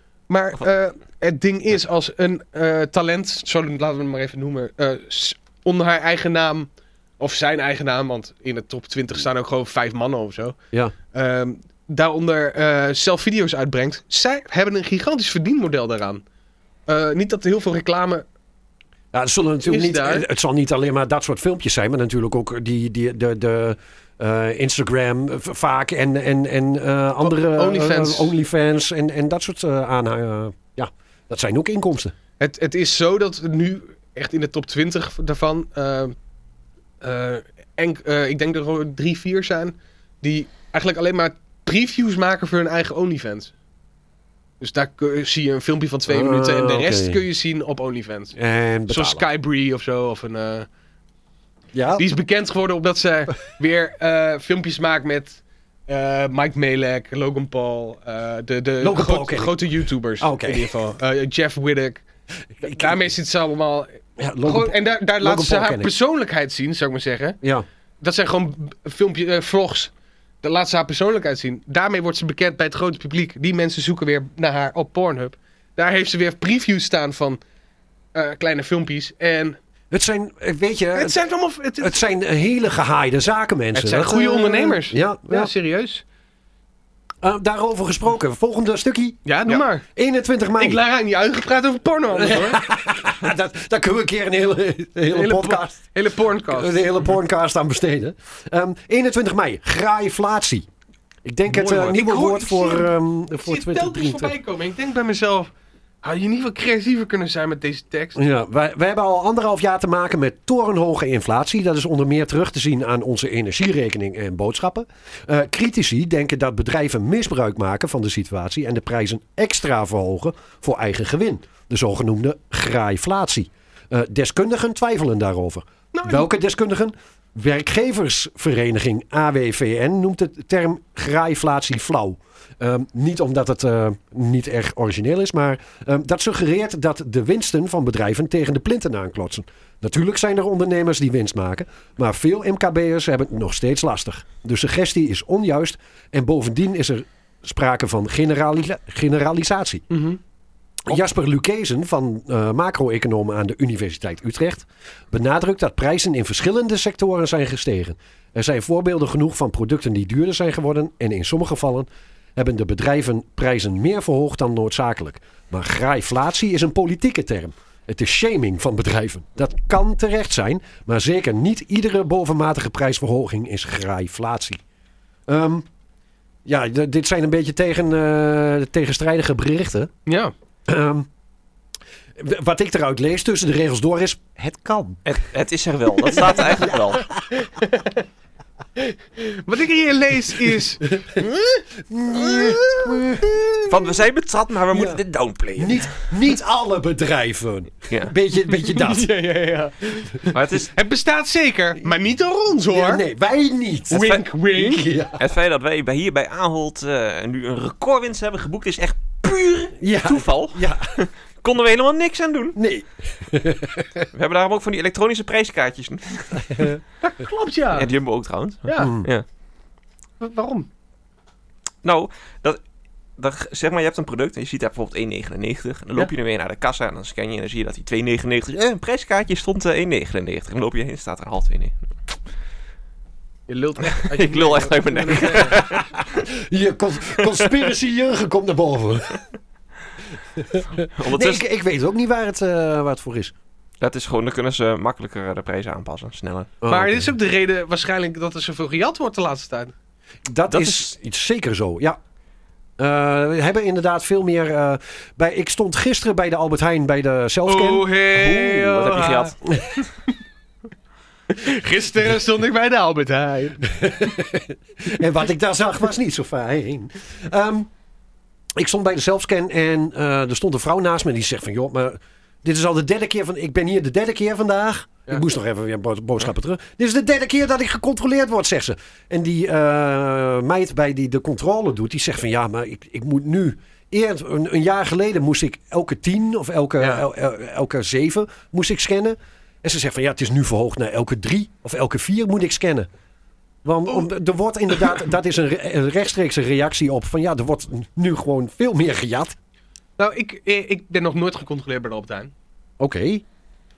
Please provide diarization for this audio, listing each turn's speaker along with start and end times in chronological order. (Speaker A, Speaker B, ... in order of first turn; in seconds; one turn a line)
Speaker A: 0.3-6.7
Speaker A: 7.2-10.6
Speaker A: 11.1-16.2
Speaker A: 16.9-18.2
Speaker B: 19.1-32.1
Speaker A: 19.6-20.3
Speaker A: 27.2-28.3
Speaker A: 32.4-36.1
Speaker A: 37.0-43.5
Speaker A: 44.6-48.4
Speaker B: 46.1-47.2
Speaker B: 48.3-49.2
Speaker A: 48.9-50.7
Speaker B: 51.7-52.0
Speaker A: 52.0-62.0
Speaker B: 58.8-60.7
Speaker A: 62.6-67.4
Speaker B: 62.6-62.9
Speaker B: 64.2-65.9
Speaker A: 68.0-77.4
Speaker A: 78.1-79.6
Speaker B: 79.9-81.2
Speaker A: 80.9-82.0
Speaker B: 81.8-85.5
Speaker A: 83.7-86.0
Speaker B: 87.2-90.8
Speaker A: 89.2-89.8
Speaker A: 90.6-92.6
Speaker B: 92.1-95.8
Speaker A: 95.1-96.8
Speaker B: 96.5-100.7
Speaker B: 101.2-104.3
Speaker A: 101.5-105.5
Speaker A: 106.0-108.2
Speaker B: 108.2-149.8
Speaker A: 125.9-126.3
Speaker A: 149.9-150.2
Speaker B: 150.9-174.6
Speaker B: 175.3-175.7
Speaker B: 176.4-179.9
Speaker A: 180.1-180.3
Speaker B: 180.7-181.1
Speaker B: 182.2-185.0
Speaker C: 185.0-187.1
Speaker B: 186.3-186.8
Speaker A: 187.4-188.0
Speaker A: 188.8-191.6
Speaker B: 191.8-193.8
Speaker A: 192.2-193.0
Speaker C: 193.7-195.9
Speaker B: 194.7-195.0
Speaker B: 195.6-199.1
Speaker C: 197.9-198.1
Speaker A: 198.6-203.0
Speaker C: 200.3-200.7
Speaker B: 202.7-205.2
Speaker A: 203.9-204.8
Speaker C: 203.9-204.2
Speaker C: 205.2-212.6
Speaker B: 209.8-210.9
Speaker B: 212.5-214.1
Speaker C: 214.1-216.7
Speaker B: 216.5-216.8
Speaker A: 217.0-217.9
Speaker C: 217.7-219.2
Speaker A: 218.7-218.9
Speaker B: 218.8-219.1
Speaker A: 220.2-220.7
Speaker C: 221.8-222.6
Speaker C: 223.2-231.8
Speaker A: 233.5-235.7
Speaker C: 234.0-235.9
Speaker B: 235.6-239.2
Speaker B: 240.3-243.3
Speaker C: 240.9-241.4
Speaker C: 243.8-246.6
Speaker B: 246.6-247.1
Speaker A: 246.7-249.7
Speaker B: 250.3-252.0
Speaker C: 250.5-250.9
Speaker B: 252.8-257.9
Speaker A: 257.4-259.3
Speaker C: 258.1-259.6
Speaker A: 261.3-264.0
Speaker B: 263.8-267.7
Speaker B: 268.6-292.9
Speaker A: 286.8-287.0
Speaker B: 293.6-299.4
Speaker A: 300.0-302.3
Speaker B: 302.8-303.2